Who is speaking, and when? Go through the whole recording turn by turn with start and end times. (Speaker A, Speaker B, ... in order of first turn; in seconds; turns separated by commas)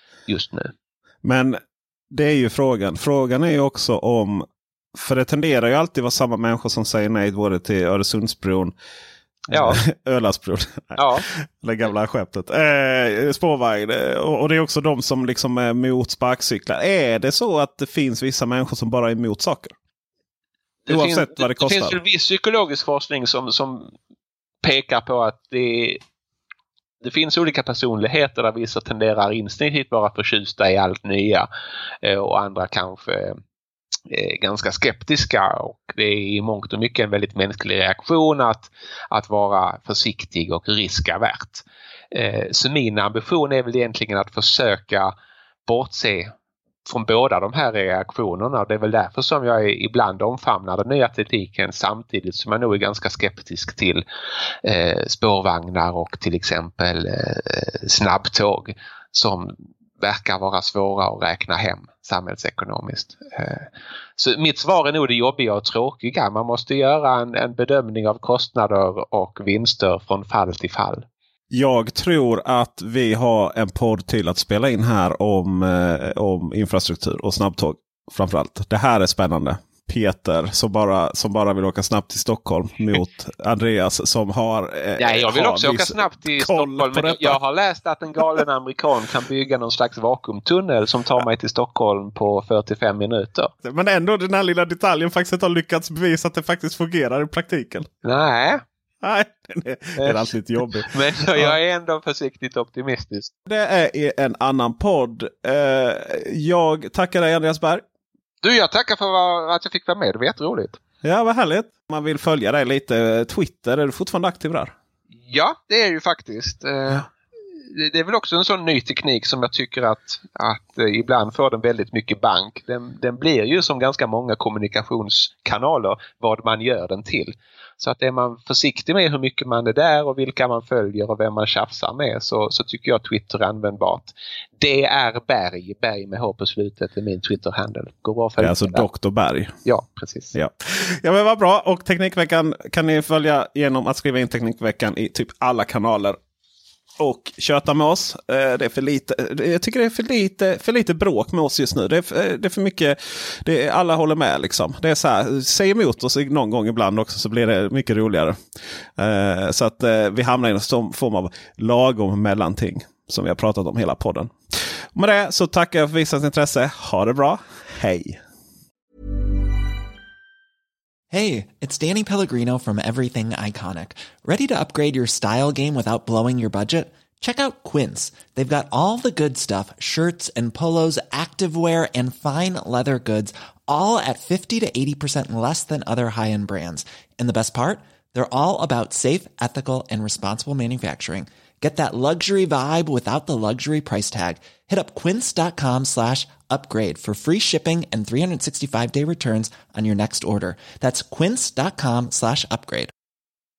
Speaker A: 0.3-0.7, Speaker B: 1.2-1.6, Speaker B: 2.1-8.7, Speaker A: 9.5-9.8, Speaker B: 9.5-19.7, Speaker A: 11.0-11.2, Speaker A: 20.9-23.9, Speaker B: 20.9-22.0, Speaker A: 24.6-26.0, Speaker A: 27.0-31.5, Speaker A: 32.0-33.4, Speaker A: 34.1-45.1, Speaker A: 45.6-46.3, Speaker A: 46.9-54.0, Speaker A: 54.6-71.0, Speaker B: 71.5-87.4, Speaker A: 85.0-93.5, Speaker B: 93.6-97.9, Speaker A: 98.0-98.6, Speaker B: 99.0-101.5, Speaker A: 100.0-100.3, Speaker A: 100.9-103.3, Speaker B: 103.5-107.8, Speaker A: 108.4-110.8, Speaker B: 111.0-114.7, Speaker A: 115.2-117.1, Speaker A: 117.7-138.8, Speaker B: 138.4-139.6, Speaker A: 139.6-140.3, Speaker B: 140.3-146.2, Speaker B: 147.0-158.4, Speaker B: 159.0-164.3, Speaker B: 164.9-168.2, Speaker C: 171.1-202.9